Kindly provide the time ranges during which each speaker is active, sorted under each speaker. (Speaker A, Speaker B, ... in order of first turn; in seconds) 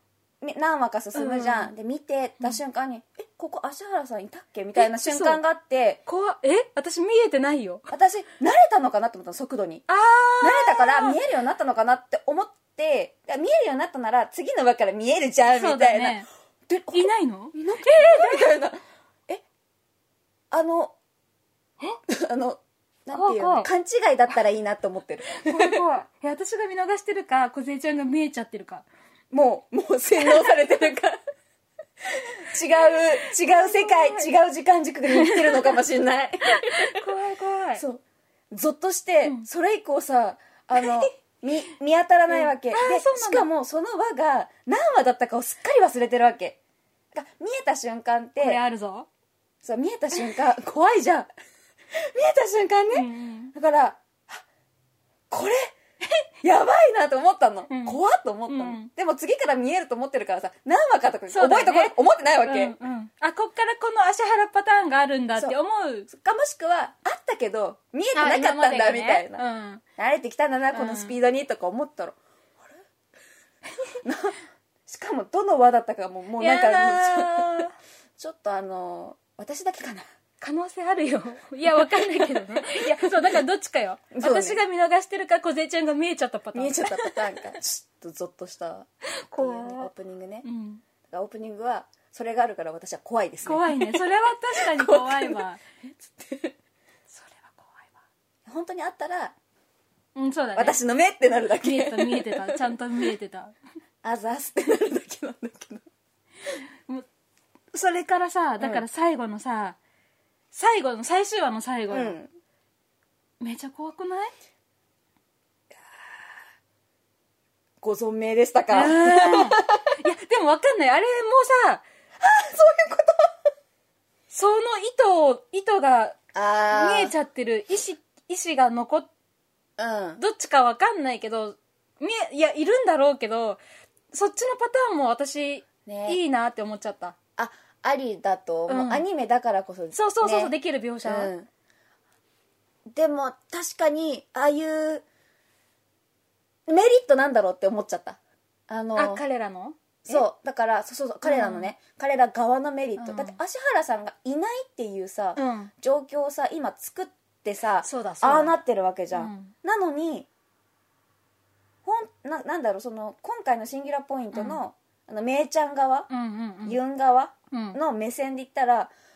Speaker A: 0.4-6.0, 7.9-9.8, 10.4-19.4, 20.5-20.9, 22.1-25.8, 29.3-31.2, 32.4-37.0, 37.8-46.6, 47.1-48.6, 49.6-51.3, 51.9-54.4, 55.3-55.7, 56.4-62.8, 66.1-69.4, 70.0-72.2, 74.0-80.0, 81.8-83.4, 84.1-84.6, 86.5-90.5, 91.1-95.5, 96.0-96.5, 98.5-99.3, 100.6-102.8, 104.0-105.9, 111.9-112.3, 117.8-120.0, 122.2-123.3, 126.3-127.1, 129.8-130.2, 135.9-136.2, 137.4-141.5, 142.9-145.0, 146.7-149.2, 150.1-160.3, 161.8-166.1, 166.7-168.9
Speaker B: 1.1-1.7, 4.8-5.4, 6.1-7.9, 9.9-11.2, 15.5-16.3, 16.9-18.6, 23.1-23.7, 25.3-28.9, 32.9-34.3, 35.1-35.8, 36.5-37.8, 40.8-41.1, 42.3-43.5, 48.4-49.1, 52.9-53.5, 57.7-58.9, 61.3-66.1, 68.1-69.8, 70.7-71.1, 76.4-77.7, 80.4-87.2, 89.1-89.9, 90.4-90.8, 93.5-95.6, 97.1-97.9, 100.2-100.8, 101.6-103.5, 107.7-109.8, 110.5-112.2, 113.4-114.3, 118.7-121.8, 124.3-126.2, 126.7-129.1, 130.2-133.6, 134.1-137.2, 138.7-139.1, 139.9-141.3, 148.9-150.2, 151.2-151.7, 153.0-153.4, 155.4-155.7, 157.8-158.6, 159.1-159.5, 164.3-164.6, 166.1-166.8, 167.5-167.8